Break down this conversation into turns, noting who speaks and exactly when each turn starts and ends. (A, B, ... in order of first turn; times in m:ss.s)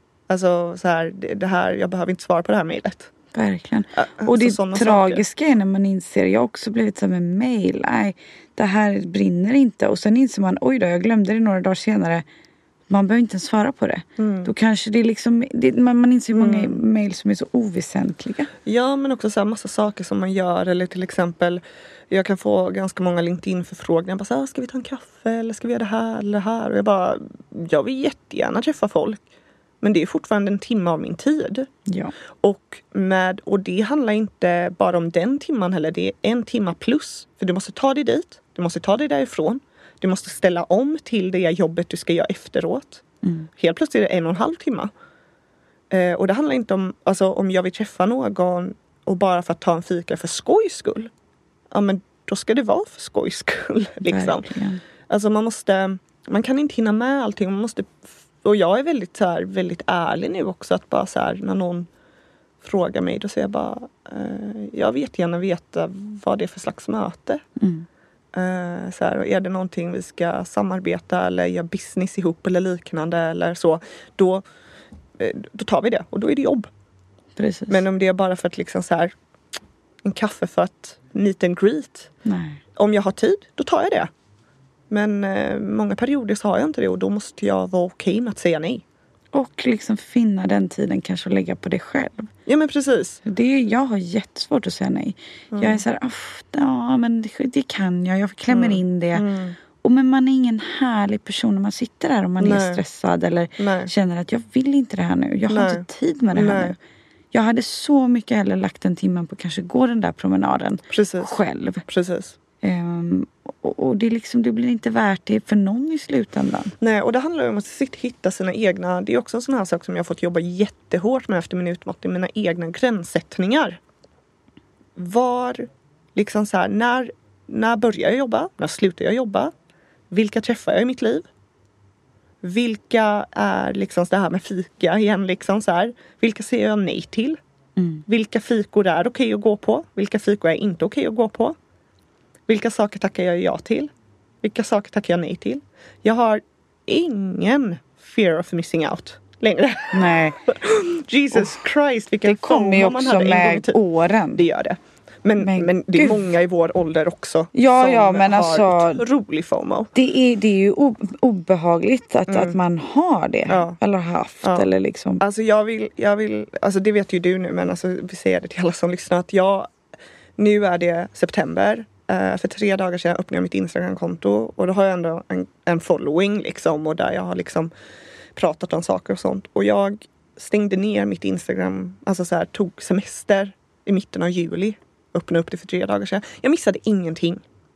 0:00.3-0:03.1 A
0:03.3-0:12.2 B
0:04.0-0:05.2 A
0:12.9-0:18.5 B
0:14.2-0:14.5 A
0:16.3-0:16.8 A
0:18.6-0:29.2 A
0:29.8-0:31.7 A
0:31.9-0:32.1 B
0:32.4-0:43.0 A
0:43.2-0:43.5 B
0:43.6-0:44.9 A
0:45.9-0:51.1 A
0:51.7-0:54.5 A
0:54.1-0:54.8 B
0:55.1-1:01.9 A
1:02.6-1:07.4 A
1:07.6-1:07.9 B
1:08.3-1:14.4 A
1:15.2-1:16.7 A
1:17.4-1:17.8 B
1:17.7-1:19.1 A
1:20.0-1:22.1 A
1:22.2-1:22.6 B
1:22.8-1:24.1 A
1:24.9-1:28.8 A
1:29.3-1:32.3 B
1:32.4-1:33.2 A
1:33.2-1:39.2 B
1:35.5-1:35.8 A
1:38.5-1:39.6 A
1:39.8-1:46.8 B
1:42.4-1:42.8 A
1:43.6-1:43.9 A
1:45.5-1:46.8 A
1:47.3-1:51.8 B
1:50.9-1:52.4 A
1:52.6-1:56.7 B
1:56.8-2:03.8 A
2:05.0-2:09.5 A
2:10.1-2:11.3 A
2:12.4-2:17.4 A
2:17.8-2:18.0 B
2:18.1-2:21.6 A
2:22.5-2:23.9 A
2:24.4-2:33.8 A
2:29.9-2:30.5 B
2:32.2-2:34.4 B
2:34.3-2:39.9 A
2:35.4-2:36.3 B
2:37.5-2:39.0 B
2:39.9-2:45.2 B
2:42.3-2:42.6 A
2:43.5-2:43.8 A
2:44.4-2:44.7 A
2:45.2-2:49.7 A
2:50.4-2:57.7 A
2:58.3-3:07.4 A